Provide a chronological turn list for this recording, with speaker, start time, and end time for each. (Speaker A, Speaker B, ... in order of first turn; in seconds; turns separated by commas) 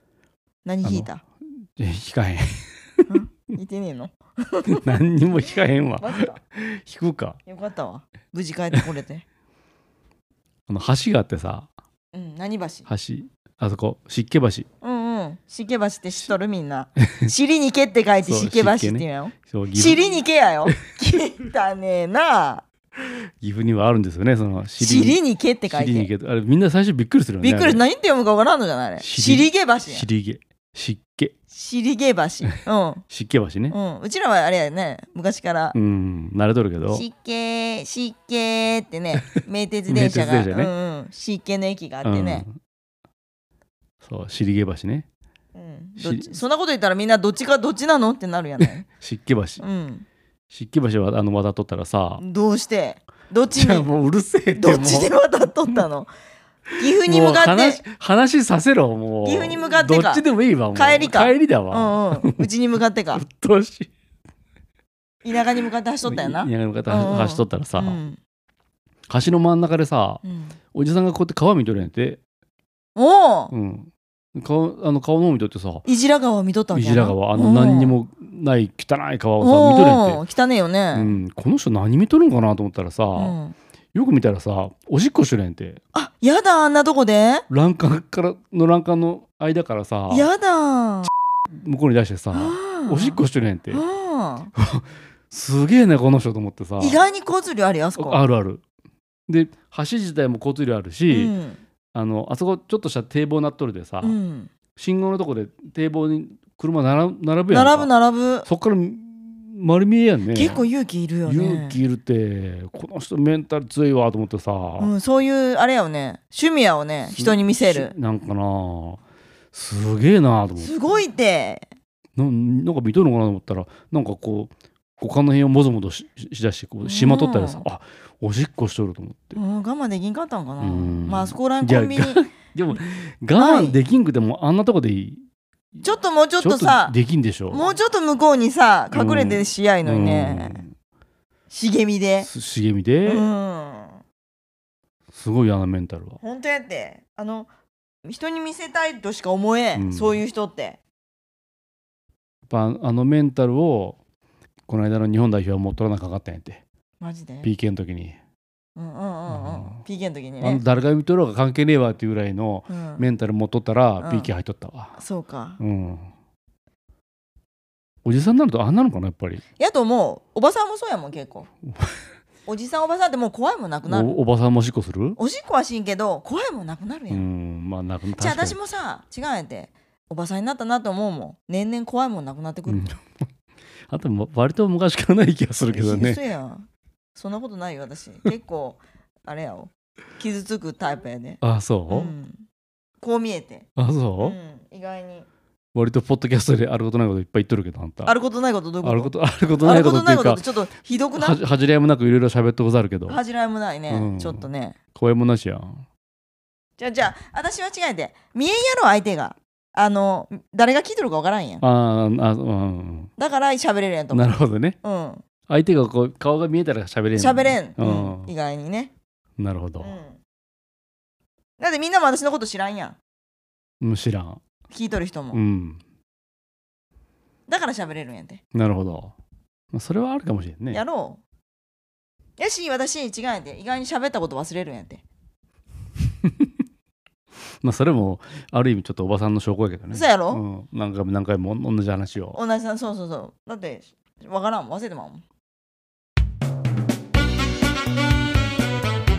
Speaker A: 0.7-1.2, Speaker B: 0.8-1.1, Speaker B: 1.6-2.6, Speaker A: 3.1-4.9, Speaker B: 4.7-7.4, Speaker A: 6.0-6.4, Speaker A: 7.5-9.2, Speaker B: 10.7-11.7, Speaker A: 12.1-12.9, Speaker B: 12.9-14.7, Speaker A: 14.8-22.6, Speaker B: 18.2-20.0, Speaker B: 23.4-27.8, Speaker A: 24.8-26.1, Speaker A: 27.4-30.1, Speaker B: 29.0-31.4, Speaker A: 31.5-33.0, Speaker B: 33.1-33.8, Speaker A: 33.7-35.8, Speaker B: 35.7-37.0, Speaker A: 36.9-42.5, Speaker B: 39.9-40.7, Speaker B: 42.0-42.5, Speaker B: 44.0-45.1, Speaker A: 45.5-48.9, Speaker B: 46.0-46.4, Speaker B: 48.9-49.6, Speaker A: 49.6-50.0, Speaker B: 50.5-52.2, Speaker A: 52.2-53.9, Speaker B: 53.5-55.1, Speaker A: 54.5-56.1, Speaker A: 56.8-57.8, Speaker B: 57.0-62.5, Speaker A: 59.2-63.2, Speaker B: 63.1-63.9, Speaker A: 65.2-68.2, Speaker B: 66.0-68.0, Speaker B: 69.1-70.2, Speaker A: 70.2-70.6, Speaker B: 70.7-72.2, Speaker A: 73.0-73.5, Speaker B: 73.5-75.9, Speaker A: 75.9-78.0, Speaker B: 76.7-80.2, Speaker A: 79.4-81.2, Speaker B: 80.9-83.4, Speaker A: 83.2-83.6, Speaker B: 83.9-85.8, Speaker A: 85.9-87.5, Speaker B: 87.5-90.3, Speaker A: 90.1-91.1, Speaker B: 91.5-93.8, Speaker A: 92.3-93.2, Speaker A: 93.7-94.5, Speaker B: 94.6-97.0, Speaker A: 96.8-98.2, Speaker B: 98.0-98.6, Speaker B: 99.3-101.3, Speaker A: 101.1-101.6, Speaker B: 101.9-104.2, Speaker A: 104.0-104.5, Speaker B: 104.8-107.9, Speaker A: 107.5-108.5, Speaker B: 108.5-110.6, Speaker A: 110.3-111.8, Speaker B: 111.3-114.9, Speaker A: 114.8-117.9, Speaker B: 117.1-119.0, Speaker B: 119.5-120.8, Speaker A: 120.6-121.7, Speaker B: 122.2-129.4, Speaker A: 126.8-127.7, Speaker A: 129.3-132.2, Speaker B: 130.6-135.2, Speaker A: 133.4-133.8, Speaker A: 135.8-137.0, Speaker B: 136.4-137.6, Speaker A: 137.5-140.6, Speaker B: 138.9-140.7, Speaker A: 141.5-142.3, Speaker B: 142.2-143.2, Speaker A: 143.1-144.0, Speaker B: 145.1-146.2, Speaker A: 146.2-147.5, Speaker A: 148.1-150.8, Speaker B: 149.8-150.2, Speaker B: 152.5-154.0, Speaker B: 154.7-156.6, Speaker A: 157.0-157.5, Speaker B: 157.4-158.2, Speaker A: 158.8-160.6, Speaker B: 159.3-159.8, Speaker B: 160.4-165.0, Speaker A: 162.7-163.1, Speaker A: 164.0-164.3, Speaker A: 165.0-165.6, Speaker B: 165.6-166.1, Speaker B: 168.1-169.4, Speaker A: 169.6-171.5, Speaker A: 172.5-174.1, Speaker B: 173.9-175.2, Speaker A: 175.2-177.2, Speaker B: 177.1-178.6, Speaker A: 178.2-182.9, Speaker B: 182.7-183.0, Speaker B: 183.9-186.2, Speaker A: 185.7-192.4, Speaker B: 191.4-192.1, Speaker A: 193.0-193.7, Speaker B: 193.8-194.4, Speaker A: 194.2-195.3, Speaker B: 195.7-198.2, Speaker A: 198.1-201.4, Speaker B: 198.8-200.4, Speaker B: 201.2-203.2, Speaker A: 203.1-204.8, Speaker B: 203.9-204.4, Speaker B: 204.9-205.8, Speaker A: 206.8-211.6, Speaker B: 211.6-213.1, Speaker A: 213.2-215.2, Speaker B: 214.1-214.8, Speaker B: 215.5-218.3, Speaker A: 217.2-218.9, Speaker B: 219.4-219.9, Speaker A: 219.8-220.2, Speaker A: 221.6-223.0, Speaker B: 223.8-224.4, Speaker A: 224.7-225.4, Speaker B: 225.3-225.8, Speaker A: 227.5-228.4, Speaker B: 228.5-229.1, Speaker B: 229.7-230.8, Speaker A: 230.7-231.2, Speaker A: 232.4-235.0, Speaker B: 237.6-242.4, Speaker A: 239.9-240.4, Speaker A: 242.3-245.2